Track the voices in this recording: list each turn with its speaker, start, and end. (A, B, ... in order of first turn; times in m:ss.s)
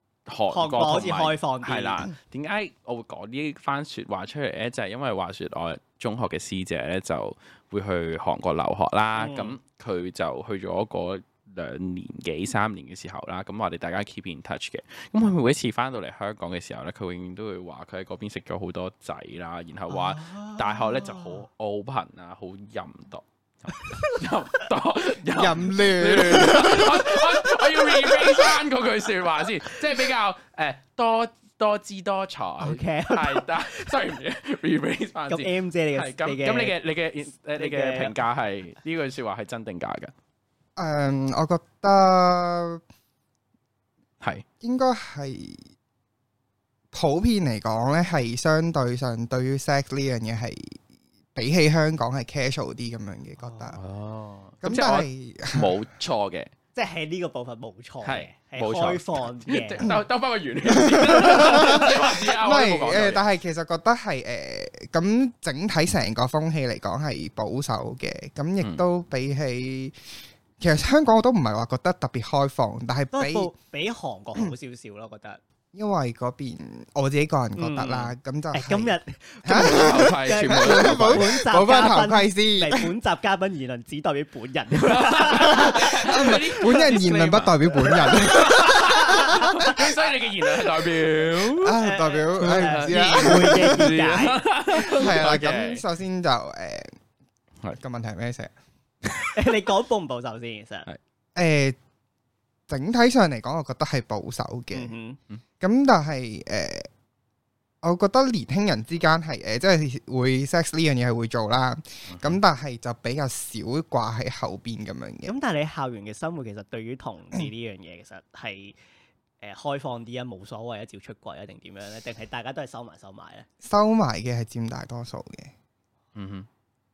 0:00.3-0:40.1 A
0:00.5-0:02.1 B
0:09.2-0:09.6 B
0:19.9-0:21.4 B
0:25.4-0:27.2 C
0:32.6-0:33.9 B
0:35.3-0:36.7 B
0:37.6-0:38.1 B
0:40.8-0:42.8 C
0:44.6-0:45.6 C
0:46.9-0:50.8 C
0:51.4-0:53.8 C
0:53.4-0:53.8 B
0:53.8-0:56.5 A
0:54.6-0:55.7 C
0:56.8-0:59.9 B
0:58.0-1:03.2 A
1:00.7-1:10.0 C
1:10.6-1:13.5 C
1:13.1-1:15.4 B
1:15.7-1:22.9 C
1:17.6-1:26.3 B
1:19.5-1:21.3 A
1:24.9-1:31.8 A
1:25.5-1:29.4 C
1:28.5-1:30.1 B
1:31.5-1:33.9 C
1:31.8-1:34.4 B
1:32.4-1:35.8 A
1:34.7-1:37.0 C
1:37.8-1:38.5 C
1:39.4-1:40.9 B
1:41.4-1:41.8 C
1:42.7-1:44.9 C
1:44.7-1:45.2 B
1:45.6-1:46.9 C
1:47.8-1:55.3 C
1:52.1-1:52.4 A
1:55.2-1:58.8 B
1:59.4-2:03.5 B
2:03.6-2:05.5 C
2:06.2-2:06.5 A